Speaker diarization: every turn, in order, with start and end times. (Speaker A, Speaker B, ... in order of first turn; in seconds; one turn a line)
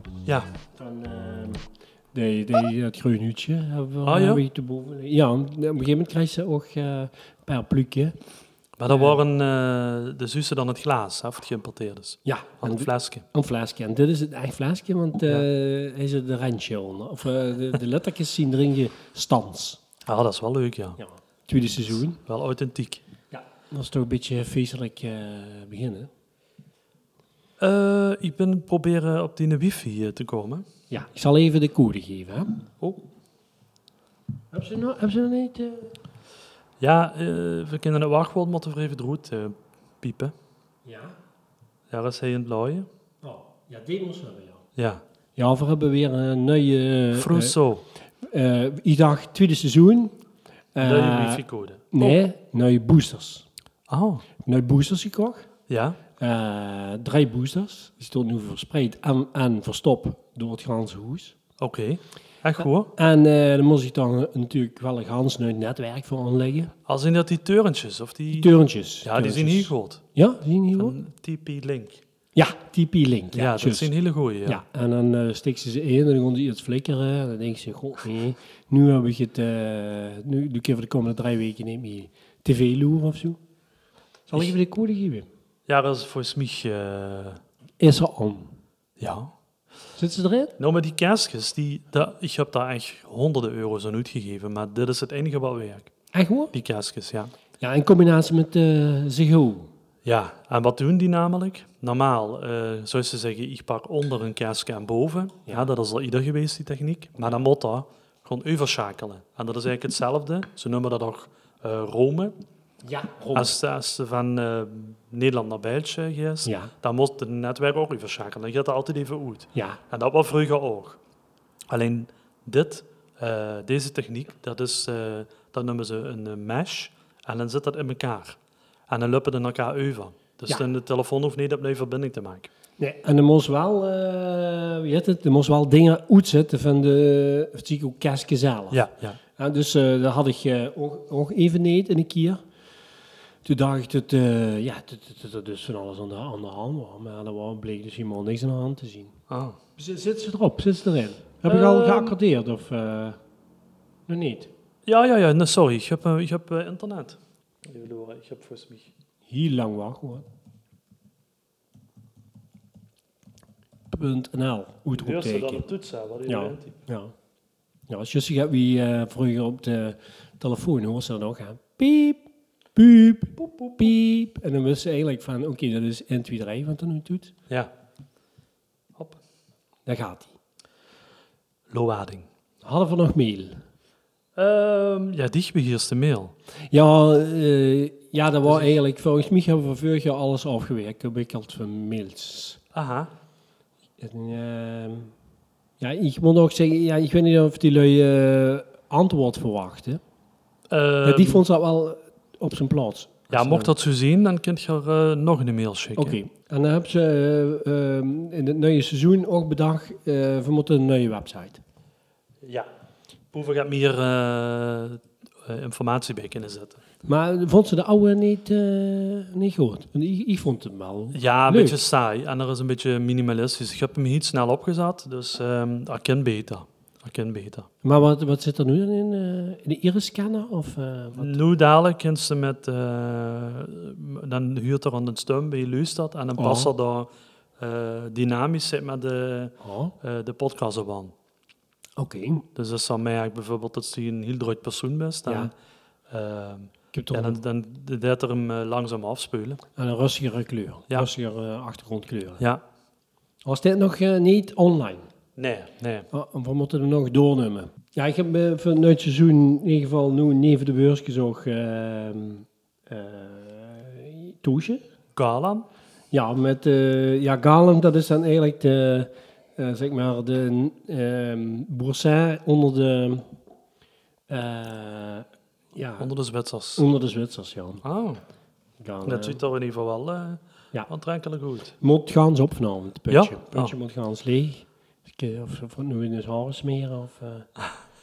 Speaker A: 0.7-8.2
Speaker B: 4.0-4.4
Speaker B: 8.8-13.2
Speaker A: 8.9-9.2
Speaker A: 12.2-19.8
Speaker B: 20.1-21.0
Speaker A: 21.0-22.2
Speaker B: 22.2-23.0
Speaker A: 23.3-26.1
Speaker B: 27.6-30.6
Speaker A: 30.9-32.6
Speaker A: 34.5-35.9
Speaker B: 36.8-40.3
Speaker A: 40.8-41.1
Speaker B: 41.9-42.9
Speaker A: 43.2-44.6
Speaker B: 44.8-45.0
Speaker A: 45.4-47.5
Speaker B: 47.1-47.8
Speaker A: 48.2-50.1
Speaker A: 50.7-53.5
Speaker B: 50.8-52.1
Speaker B: 53.9-54.2
Speaker A: 54.4-55.5
Speaker B: 55.7-56.0
Speaker A: 56.2-61.3
Speaker B: 61.6-62.9
Speaker A: 62.6-66.7
Speaker B: 66.8-70.0
Speaker A: 68.3-71.0
Speaker B: 70.7-72.0
Speaker A: 72.3-73.9
Speaker B: 73.3-74.6
Speaker A: 74.4-83.4
Speaker A: 84.3-85.3
Speaker B: 85.7-87.4
Speaker A: 87.8-88.5
Speaker B: 89.0-89.3
Speaker A: 90.0-90.5
Speaker B: 90.6-95.9
Speaker A: 96.1-96.5
Speaker B: 96.5-97.3
Speaker A: 97.6-99.7
Speaker B: 100.0-112.3
Speaker A: 112.8-113.5
Speaker B: 113.3-121.0
Speaker A: 116.4-116.7
Speaker A: 119.5-119.8
Speaker B: 121.7-128.4
Speaker B: 128.9-132.5
Speaker A: 132.8-142.4
Speaker B: 138.7-139.2
Speaker A: 143.4-149.1
Speaker B: 149.3-149.6
Speaker A: 149.8-153.2
Speaker B: 151.4-152.1
Speaker A: 154.1-154.5
Speaker B: 154.8-158.9
Speaker A: 159.3-160.2
Speaker A: 163.9-165.6
Speaker B: 164.9-166.8
Speaker A: 166.2-167.1
Speaker A: 167.9-177.3
Speaker B: 173.4-173.8
Speaker A: 179.8-180.3
Speaker B: 181.7-182.3
Speaker A: 182.6-183.6
Speaker B: 184.3-186.3
Speaker A: 186.7-192.6
Speaker B: 188.5-188.7
Speaker B: 192.7-193.1
Speaker A: 194.0-195.1
Speaker A: 195.8-200.0
Speaker B: 200.7-201.4
Speaker A: 201.0-203.7
Speaker B: 203.3-206.2
Speaker A: 205.9-211.6
Speaker B: 212.4-212.7
Speaker B: 213.3-216.8
Speaker A: 217.0-221.8
Speaker B: 221.1-227.7
Speaker A: 227.8-231.4
Speaker B: 231.2-241.1
Speaker A: 236.4-236.7
Speaker A: 239.6-239.9
Speaker A: 242.0-242.4
Speaker B: 242.5-245.5
Speaker B: 246.1-249.6
Speaker A: 246.9-247.4
Speaker A: 249.8-252.4
Speaker A: 253.4-255.1
Speaker B: 255.3-256.1
Speaker A: 256.1-264.8
Speaker B: 265.1-265.7
Speaker A: 266.1-273.3
Speaker A: 274.3-276.1
Speaker B: 276.0-276.9
Speaker A: 276.8-277.8
Speaker B: 277.8-278.2
Speaker A: 278.8-279.4
Speaker B: 279.0-281.7
Speaker A: 281.8-287.5
Speaker B: 283.1-283.7